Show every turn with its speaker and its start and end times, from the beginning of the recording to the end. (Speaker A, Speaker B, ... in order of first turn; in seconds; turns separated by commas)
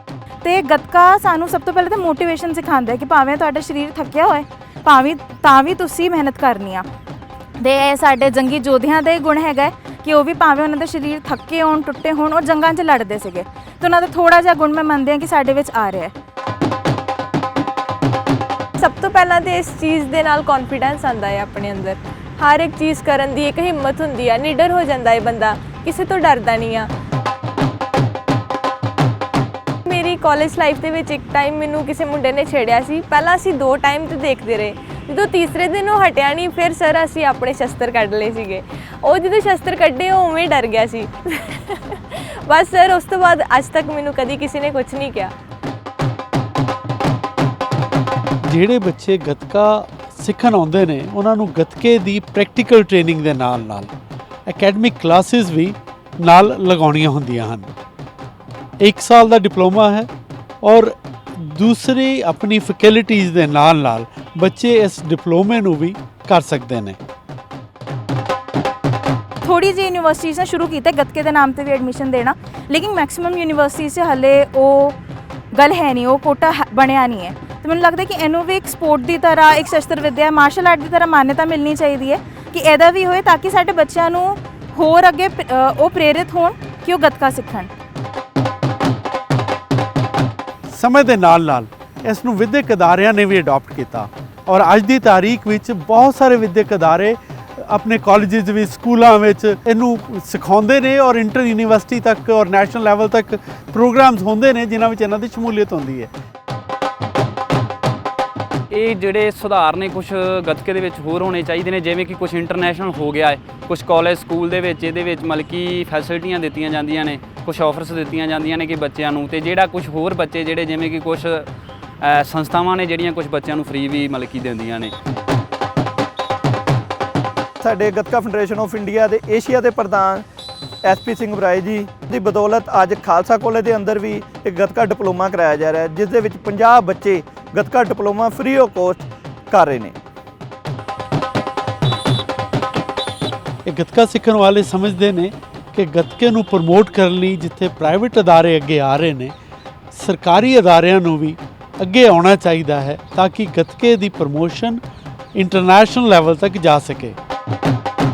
Speaker A: 0.4-6.8, Speaker A: 7.6-16.1, Speaker B: 18.8-26.9, Speaker B: 29.9-45.3, Speaker C: 48.5-53.9, Speaker C: 54.5-57.7, Speaker C: 58.8-60.1, Speaker C: 60.6-67.0, Speaker A: 69.4-75.0, Speaker A: 75.5-87.7, Speaker C: 90.7-106.1, Speaker D: 108.7-121.5, Speaker D: 122.0-124.9, Speaker E: 127.6-130.3, Speaker E: 130.8-140.0, Speaker C: 143.7-149.3, Speaker C: 149.9-154.8, Speaker C: 155.4-157.2